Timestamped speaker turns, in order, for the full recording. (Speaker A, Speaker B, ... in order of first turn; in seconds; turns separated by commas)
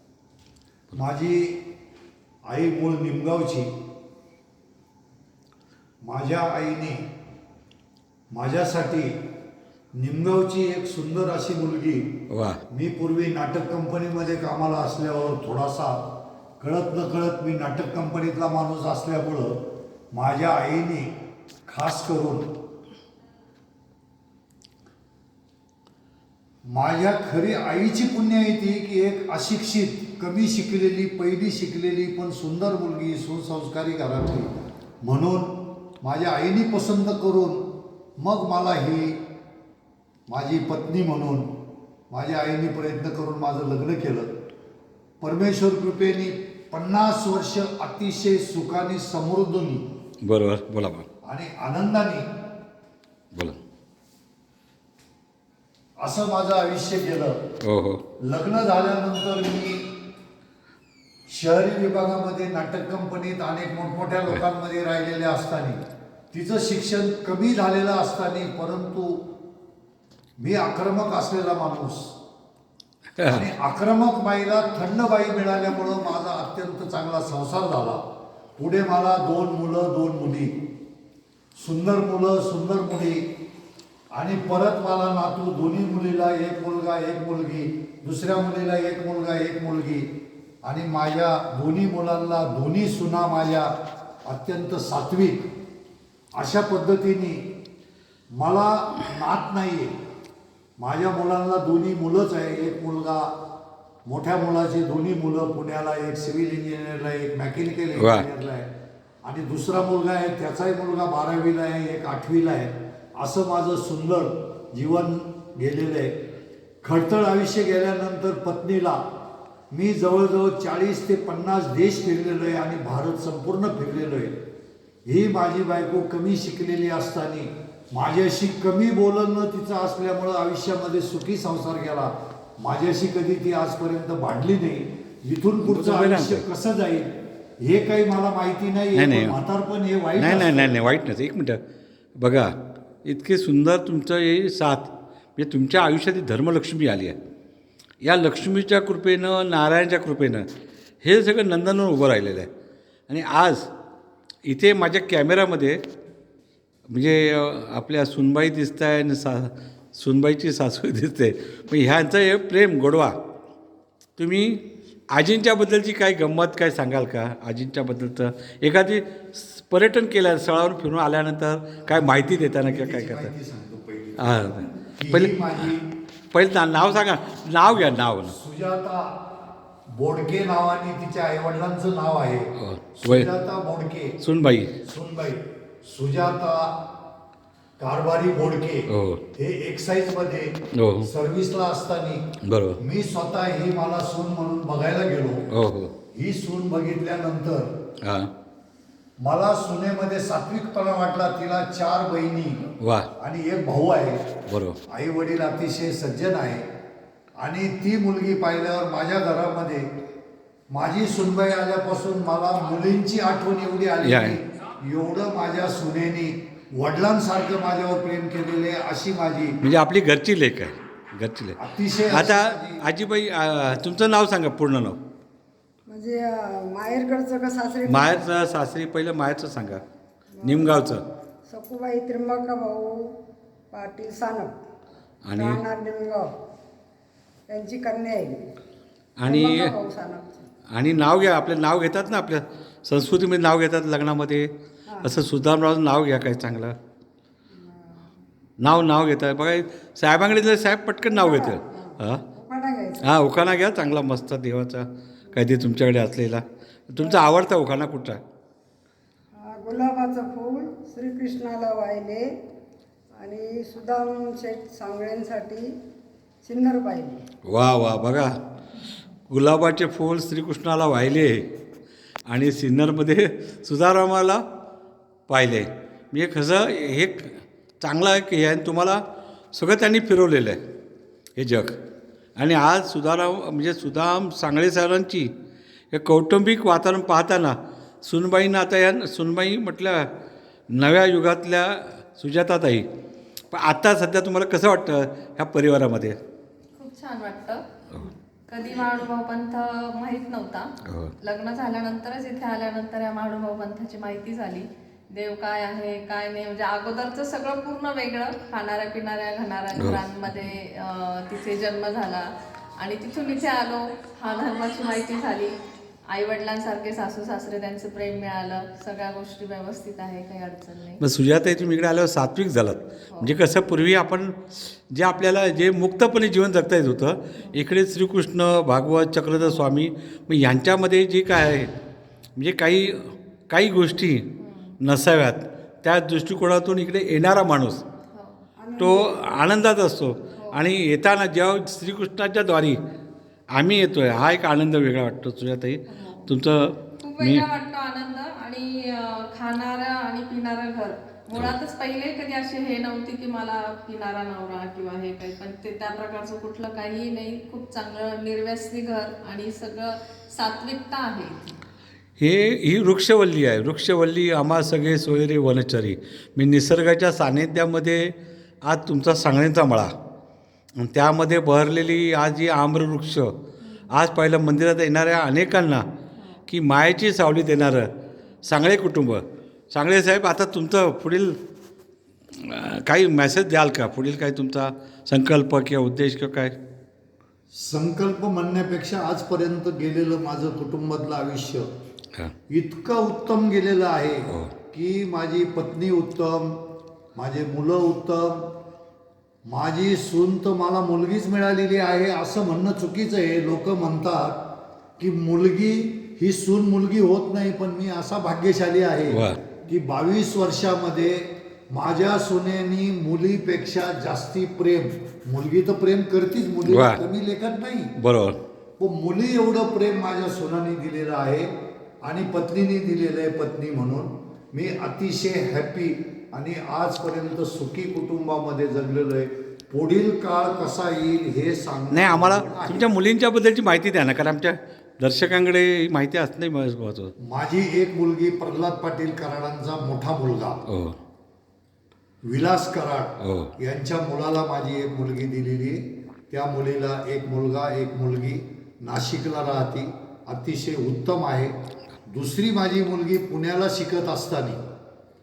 Speaker A: 0.9-1.7, Speaker A: 2.5-3.7, Speaker A: 6.0-7.0, Speaker A: 8.3-9.2, Speaker A: 9.9-16.1, Speaker B: 12.3-12.6, Speaker A: 16.6-21.1, Speaker A: 21.7-22.5, Speaker A: 26.7-39.2, Speaker A: 40.3-41.5, Speaker A: 42.1-44.3, Speaker A: 45.2-49.8, Speaker B: 50.2-51.1, Speaker A: 51.2-52.2, Speaker A: 56.0-57.4, Speaker B: 57.6-58.0, Speaker A: 58.2-59.8, Speaker A: 61.3-65.8, Speaker A: 66.3-69.3, Speaker A: 70.4-72.1, Speaker B: 73.2-73.5, Speaker A: 73.3-78.0, Speaker A: 78.6-80.6, Speaker A: 81.6-83.3, Speaker A: 84.1-90.1, Speaker A: 90.6-93.7, Speaker A: 94.2-95.5, Speaker A: 96.3-97.4, Speaker A: 98.3-99.9, Speaker A: 100.8-103.4, Speaker A: 104.0-108.7, Speaker B: 108.0-108.2, Speaker A: 109.2-116.2, Speaker A: 116.8-119.0, Speaker A: 119.7-124.4, Speaker A: 125.0-140.8, Speaker B: 135.6-136.4, Speaker B: 138.9-139.4, Speaker B: 140.2-141.6, Speaker B: 142.2-142.5, Speaker B: 143.0-147.2, Speaker B: 148.0-150.4, Speaker B: 151.0-152.5, Speaker B: 153.1-153.7, Speaker B: 154.4-155.8, Speaker B: 156.9-163.2, Speaker B: 164.2-173.3, Speaker A: 171.9-174.3, Speaker B: 174.2-175.7, Speaker A: 175.0-175.9, Speaker B: 176.3-178.3, Speaker A: 178.3-179.2, Speaker A: 179.9-184.2, Speaker B: 182.6-183.3, Speaker B: 184.2-184.8, Speaker A: 184.8-186.9, Speaker A: 187.8-192.2, Speaker B: 188.9-189.2, Speaker B: 190.7-191.1, Speaker B: 192.4-192.8, Speaker A: 192.8-195.5, Speaker B: 195.5-195.9, Speaker A: 196.1-197.7, Speaker B: 198.0-198.3, Speaker A: 199.2-204.3, Speaker B: 202.8-203.1, Speaker B: 204.5-204.8, Speaker A: 204.9-206.7, Speaker A: 207.4-209.9, Speaker A: 210.7-219.6, Speaker B: 214.0-214.4, Speaker B: 219.6-225.0, Speaker A: 221.6-222.8, Speaker C: 225.9-228.3, Speaker B: 227.8-229.8, Speaker C: 230.4-230.9, Speaker B: 230.4-231.0, Speaker C: 231.5-233.2, Speaker C: 233.7-234.5, Speaker B: 235.2-235.6, Speaker C: 235.3-236.3, Speaker C: 237.5-238.4, Speaker B: 239.2-239.7, Speaker C: 239.2-240.4, Speaker B: 240.7-246.7, Speaker C: 244.9-245.2, Speaker C: 247.5-248.1, Speaker B: 248.6-252.2, Speaker C: 251.1-253.1, Speaker B: 253.0-258.2, Speaker C: 259.3-262.3, Speaker C: 263.2-265.7, Speaker C: 266.4-267.2, Speaker B: 267.5-268.3, Speaker B: 269.3-271.5, Speaker B: 272.3-274.4, Speaker B: 275.3-280.6, Speaker B: 281.4-281.8, Speaker B: 282.4-285.3, Speaker B: 285.9-290.1, Speaker B: 290.7-292.9, Speaker B: 293.5-296.2, Speaker D: 296.8-297.6, Speaker D: 298.5-321.0, Speaker B: 300.8-301.1, Speaker B: 321.0-331.7, Speaker B: 332.4-337.8, Speaker D: 334.4-334.8, Speaker D: 338.1-338.5, Speaker C: 338.6-339.4, Speaker B: 338.8-342.8, Speaker B: 343.5-347.4, Speaker D: 345.9-346.3, Speaker D: 347.0-361.6, Speaker B: 362.2-369.9, Speaker B: 370.8-373.4, Speaker D: 373.6-373.9, Speaker B: 373.9-375.9, Speaker D: 376.1-376.4, Speaker B: 376.5-377.9, Speaker B: 378.4-381.4, Speaker B: 382.3-386.5, Speaker A: 387.5-391.7, Speaker A: 392.5-398.5, Speaker B: 394.3-394.5, Speaker A: 399.4-404.5, Speaker A: 405.0-417.9, Speaker B: 409.1-409.4, Speaker B: 416.6-417.0, Speaker B: 417.9-418.4, Speaker A: 418.8-421.5, Speaker A: 422.0-432.9, Speaker B: 431.9-437.1, Speaker A: 437.2-440.6, Speaker B: 440.7-440.9, Speaker A: 442.2-451.5, Speaker B: 443.2-443.5, Speaker A: 452.1-454.6